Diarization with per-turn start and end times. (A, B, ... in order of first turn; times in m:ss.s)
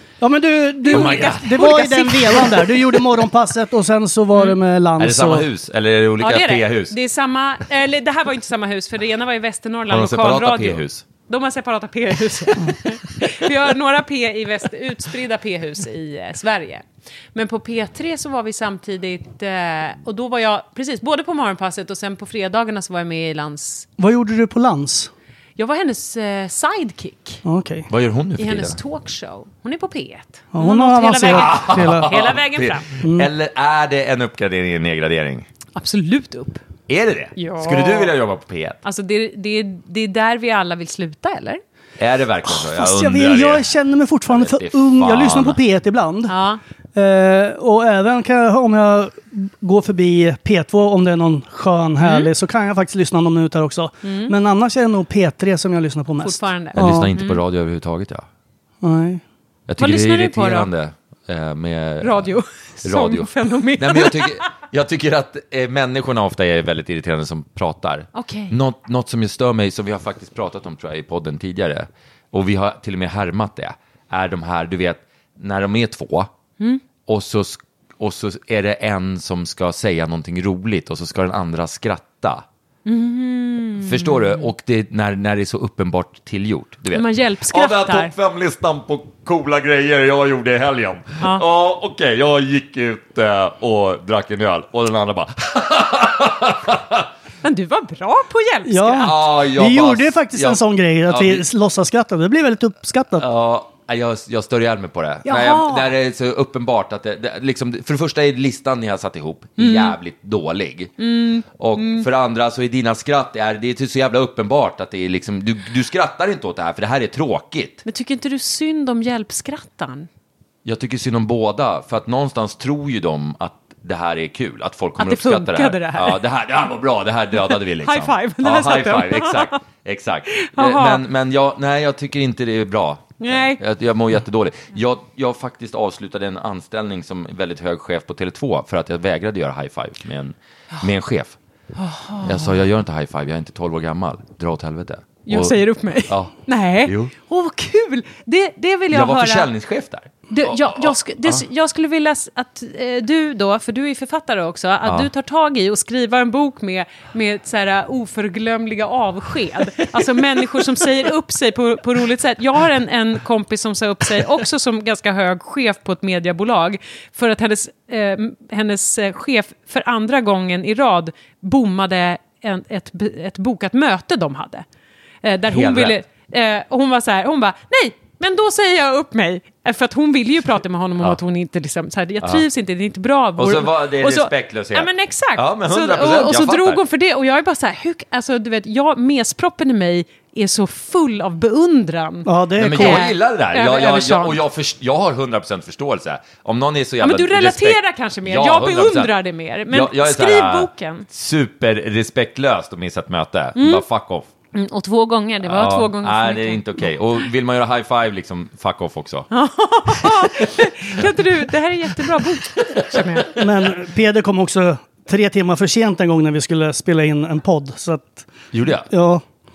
0:00.2-0:05.5 A
0:00.9-0:03.0 B
0:00.9-0:01.5 C
0:05.0-0:07.0 C
0:06.2-0:23.9 B
0:09.9-0:11.0 C
0:24.0-0:25.1 A
0:25.6-0:27.4 B
0:27.4-0:27.9 A
0:27.9-0:28.8 C
0:28.4-0:32.9 B
0:30.5-0:32.1 A
0:31.2-0:35.5 C
0:33.0-0:33.3 A
0:35.8-0:36.6 B
0:36.9-0:38.8 C
0:37.4-0:38.1 B
0:38.8-0:41.6 B
0:42.0-0:43.7 C
0:42.5-0:46.3 A
0:44.3-0:45.6 C
0:46.3-0:46.6 B
0:47.0-0:57.1 A
0:52.0-0:52.3 B
0:54.0-0:54.3 B
0:56.2-0:57.4 B
0:56.7-0:58.3 C
0:58.8-0:59.2 A
0:59.7-1:02.3 C
0:59.8-1:00.7 B
1:02.0-1:04.5 B
1:02.8-1:16.3 C
1:08.2-1:08.6 B
1:17.1-1:22.4 C
1:22.9-1:24.5 B
1:23.8-1:37.1 C
1:26.9-1:28.1 B
1:37.4-1:39.2 B
1:38.7-1:43.3 A
1:39.0-1:41.5 C
1:43.2-1:50.9 C
1:45.2-1:45.9 B
1:49.6-1:50.0 B
1:51.0-1:52.1 B
1:51.6-1:57.8 C
1:57.8-2:00.1 B
2:00.6-2:21.4 C
2:05.0-2:06.2 B
2:07.5-2:09.6 B
2:10.4-2:11.0 B
2:13.2-2:13.6 B
2:21.8-2:22.6 B
2:22.2-2:27.1 C
2:25.3-2:29.5 B
2:28.9-2:31.4 C
2:30.3-2:54.6 B
2:55.2-3:14.4 B
2:55.5-2:56.0 C
3:03.4-3:06.8 C
3:12.3-3:13.1 A
3:12.6-3:19.1 C
3:17.0-3:21.1 B
3:19.7-3:24.3 C
3:23.6-3:23.8 B
3:24.5-3:26.9 B
3:25.4-3:29.3 C
3:29.3-3:33.4 B
3:30.0-3:30.3 C
3:32.8-3:33.2 C
3:33.4-3:38.3 A
3:38.5-3:38.9 C
3:38.9-3:39.2 A